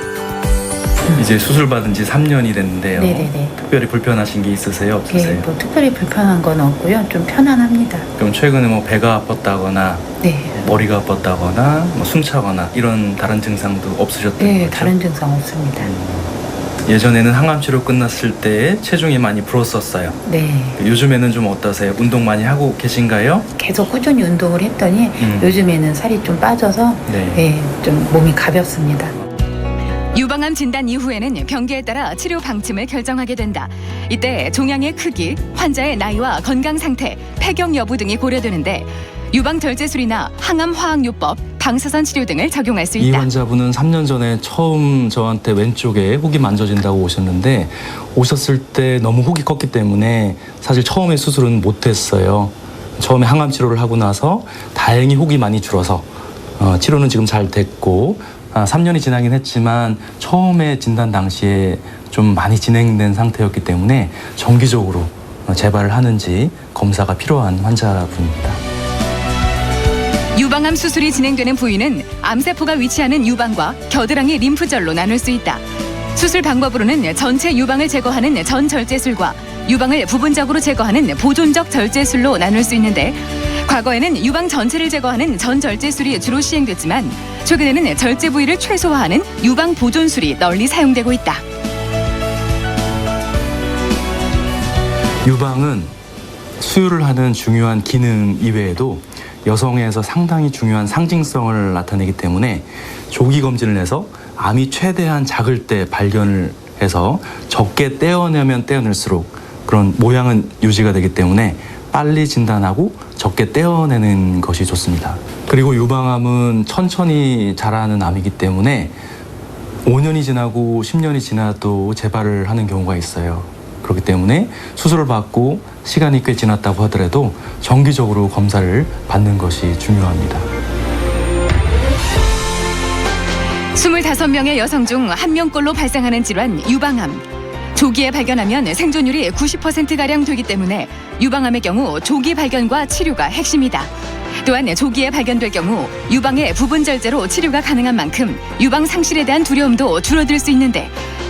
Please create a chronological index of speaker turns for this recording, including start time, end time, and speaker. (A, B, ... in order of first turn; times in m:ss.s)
0:01.1-0:05.5 A
0:02.9-0:03.5 B
0:05.1-0:08.0 B
0:08.2-0:15.0 A
0:10.2-0:10.6 B
0:14.4-0:15.9 B
0:15.8-0:16.3 A
0:16.8-0:20.2 A
0:20.2-0:20.8 B
0:20.8-0:23.5 A
0:23.6-0:29.1 B
0:25.2-0:25.6 A
0:27.1-0:27.4 A
0:30.1-0:43.3 C
0:43.0-0:56.1 A
0:56.6-1:08.6 A
1:10.3-1:15.6 C
1:16.1-1:31.4 C
1:35.2-1:35.9 A
1:36.6-1:59.0 A
1:59.8-2:10.5 A
2:13.7-2:17.2 C
2:17.7-2:31.0 C